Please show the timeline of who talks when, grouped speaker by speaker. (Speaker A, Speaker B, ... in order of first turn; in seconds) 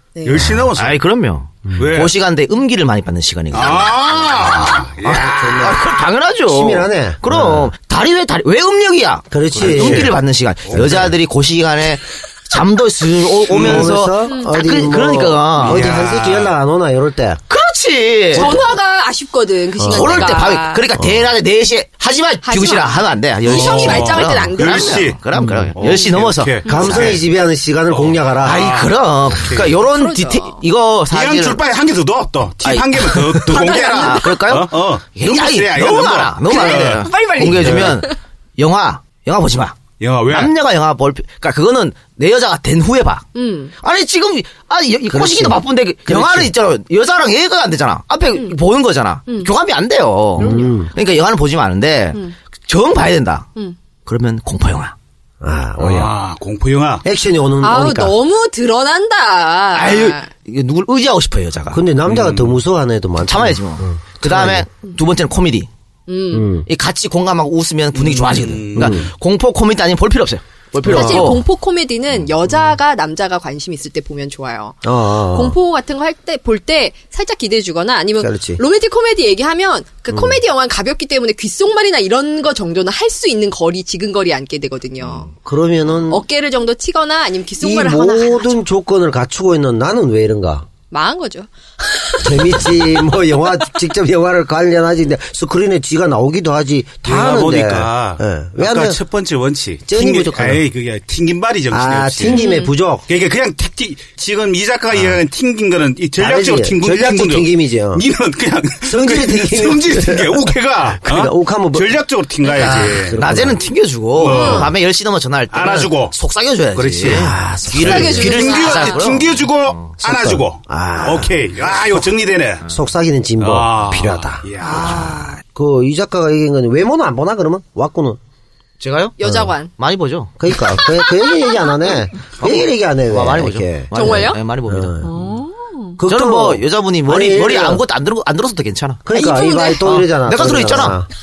Speaker A: 0.1-0.5, 14.2-14.8, 18.3-20.8, 22.4-25.1, 29.9-30.6, 33.5-34.4, 36.5-38.1, 43.3-43.7, 49.3-49.5, 50.4-50.9, 57.6-60.3, 66.1-66.5, 70.9-85.3, 86.1-88.6, 90.9-92.7, 102.2-102.7, 114.2-114.7, 117.7-119.1, 129.2-129.7, 133.9-134.4, 135.0-136.0, 139.1-139.8
Speaker B: 0.2-1.0, 1.7-2.2, 3.5-5.7, 9.6-10.9, 13.5-13.9, 15.6-16.5, 23.4-27.2, 27.9-29.8, 31.1-38.0, 40.0-40.5, 55.8-57.0, 62.0-62.6, 67.9-69.0, 97.0-102.5, 103.1-113.2, 114.1-114.7, 115.5-116.1, 116.7-117.4, 118.0-122.7, 123.4-125.2
Speaker C: 0.6-15.9, 17.5-18.6, 19.8-27.2, 28.4-31.6, 32.6-43.3, 43.8-53.5, 54.0-54.9, 59.7-61.8, 63.2-65.7, 66.7-71.4, 112.5-119.9, 128.8-129.2, 129.8-130.3, 132.4-135.0, 136.0-139.2, 139.8-141.0
Speaker D: 5.1-5.9, 6.4-7.7, 9.3-10.2, 10.7-11.1, 13.6-17.4, 18.3-18.7, 21.0-21.3, 25.3-25.7, 26.7-28.6, 45.1-46.5, 50.4-50.9, 55.4-56.1, 57.0-58.1, 61.7-64.7, 66.3-66.7, 68.7-69.1, 70.8-71.4, 74.8-75.5, 78.2-78.6, 80.1-80.4, 85.3-86.2, 87.6-90.7, 92.2-99.0, 99.9-100.6, 101.7-103.1, 106.2-108.0, 108.8-110.4, 111.0-111.9, 112.6-113.6, 117.1-118.5, 120.0-121.4, 122.7-128.2, 129.2-129.5, 130.4-135.2, 136.0-137.8, 139.0-141.1